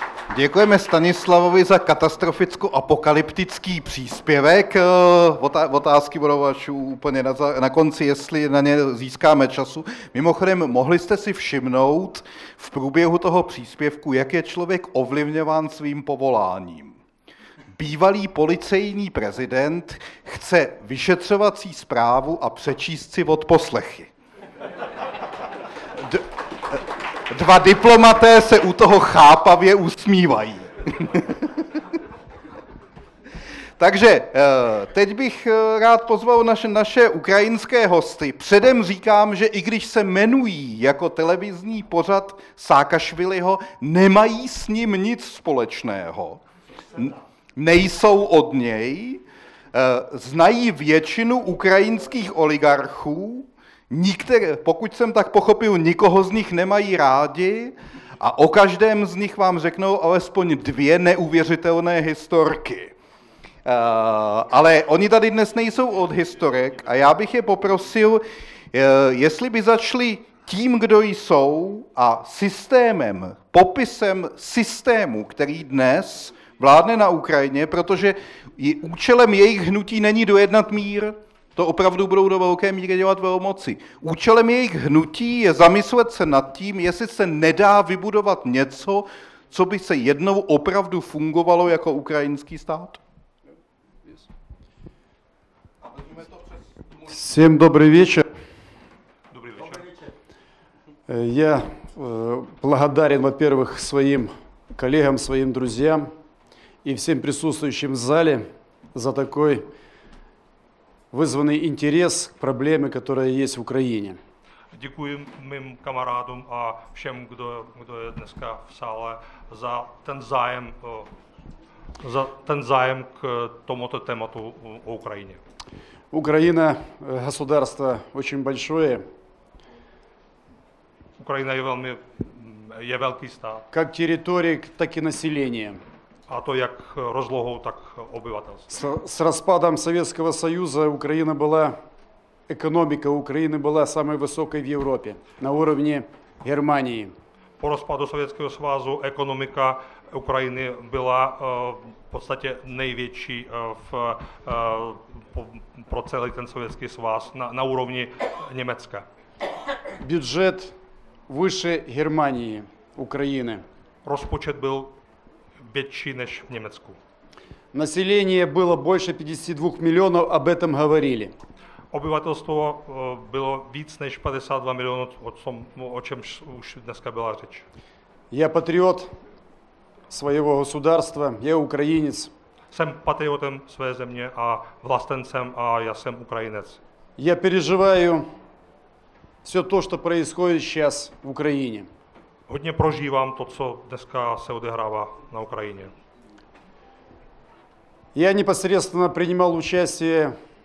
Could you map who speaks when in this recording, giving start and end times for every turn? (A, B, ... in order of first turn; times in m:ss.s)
0:00.3-0:17.0 A
0:17.7-0:24.1 A
0:26.0-0:31.6 A
0:33.8-0:46.4 A
0:46.9-0:49.2 A
0:49.7-1:02.9 A
1:03.6-1:33.0 A
1:37.1-1:38.2 B
1:39.3-1:39.9 C
1:41.1-1:46.1 B
1:46.8-1:49.6 B
1:51.1-1:54.2 B
1:54.7-2:01.1 C
2:02.0-2:05.4 C
2:06.1-2:09.0 B
2:11.2-2:13.6 C
2:13.7-2:15.8 B
2:16.3-2:18.7 C
2:18.7-2:21.8 B
2:22.5-2:27.1 B
2:27.6-2:39.0 C
2:40.0-2:40.7 B
2:41.3-2:43.6 B
2:44.0-2:44.9 C
2:45.7-2:47.0 C
2:47.7-2:51.3 B
2:51.9-2:57.6 C
2:58.3-2:59.1 B
3:00.1-3:02.3 B
3:02.7-3:06.8 C
3:07.2-3:08.2 B
3:09.4-3:11.9 B
3:12.5-3:15.9 C
3:18.1-3:20.4 B